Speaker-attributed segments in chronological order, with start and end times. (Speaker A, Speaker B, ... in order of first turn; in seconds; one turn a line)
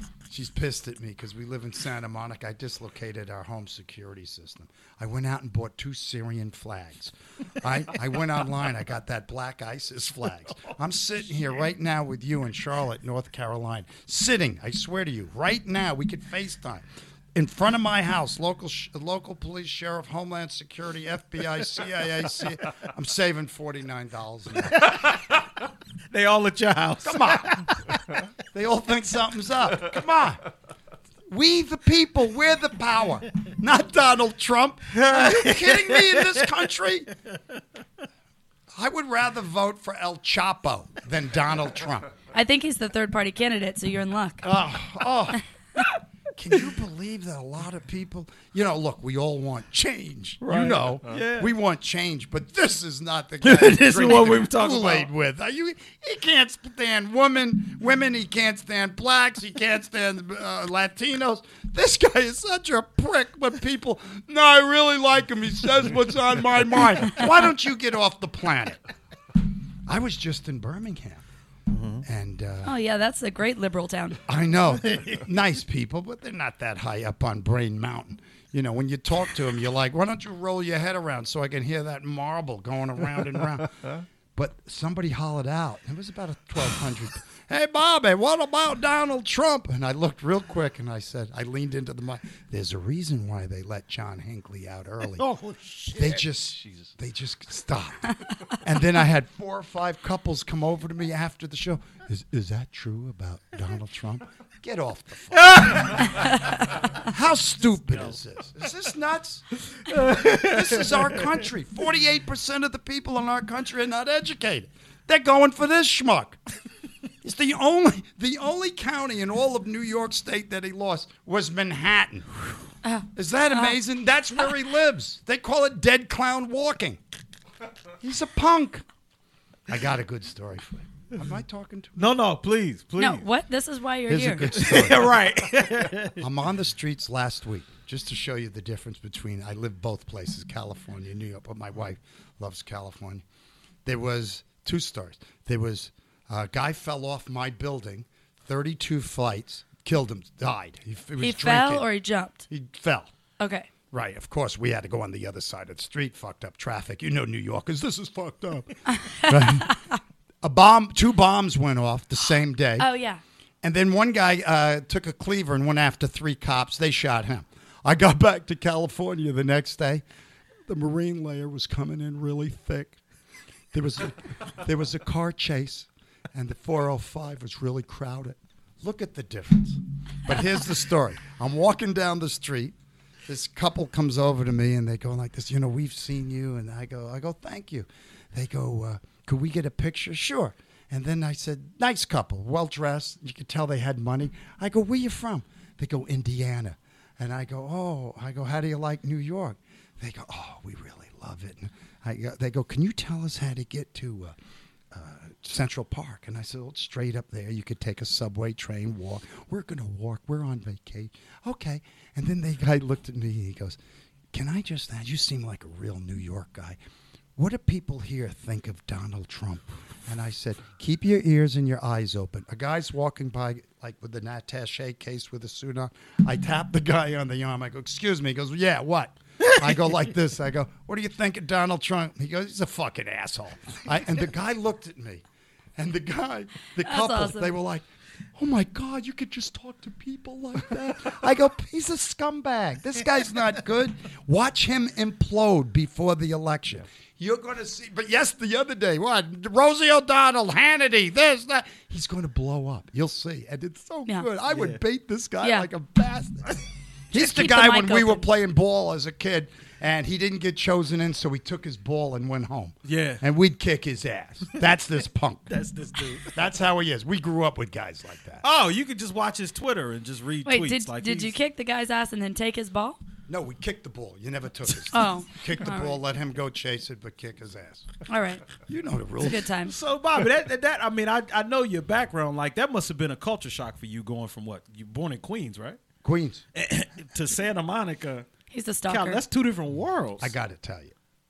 Speaker A: 0.3-24.9
Speaker B: 24.6-25.5
Speaker B: 26.1-27.8
Speaker A: 27.0-27.7
Speaker A: 28.4-30.4
Speaker A: 31.3-37.1
Speaker B: 34.9-36.4
Speaker A: 38.7-42.1
Speaker C: 42.3-44.4
Speaker A: 44.4-45.4
Speaker A: 46.3-68.8
Speaker B: 50.4-51.5
Speaker B: 53.4-55.1
Speaker A: 69.9-71.2
Speaker B: 71.7-72.0
Speaker A: 72.0-72.7
Speaker C: 72.6-74.2
Speaker A: 74.2-95.2
Speaker B: 95.2-96.9
Speaker A: 95.9-116.4
Speaker B: 105.3-106.2
Speaker B: 109.8-111.4
Speaker A: 117.2-122.4
Speaker C: 122.8-123.7
Speaker A: 123.1-127.0
Speaker A: 128.0-128.8
Speaker A: 129.7-132.1
Speaker B: 131.9-133.3
Speaker C: 133.0-134.5
Speaker A: 134.1-135.1
Speaker B: 134.5-136.2
Speaker A: 136.1-143.2
Speaker A: 143.8-151.9
Speaker C: 151.2-152.4
Speaker A: 152.5-153.1
Speaker C: 153.4-153.7
Speaker A: 153.9-159.8
Speaker C: 158.9-159.8
Speaker A: 160.4-162.9
Speaker C: 162.8-163.2
Speaker A: 163.6-170.0
Speaker A: 170.7-173.0
Speaker A: 173.7-182.7
Speaker A: 183.3-204.3
Speaker A: 204.9-213.8
Speaker A: 214.3-216.8
Speaker A: 217.4-235.2
Speaker A: 235.8-256.6
Speaker C: 236.8-237.6
Speaker B: 254.5-254.8
Speaker C: 255.4-255.7
Speaker C: 257.1-258.3
Speaker A: 257.1-265.5
Speaker B: 262.8-263.2
Speaker B: 265.5-266.4
Speaker A: 266.3-268.4
Speaker B: 268.4-271.3
Speaker C: 270.4-273.0
Speaker A: 273.3-277.9
Speaker C: 274.9-276.0
Speaker C: 278.1-278.4
Speaker A: 278.5-279.5
Speaker C: 279.2-279.7
Speaker B: 279.6-285.8
Speaker A: 286.0-286.4
Speaker B: 286.5-288.3
Speaker C: 288.5-289.2
Speaker B: 288.9-290.3
Speaker A: 290.2-290.9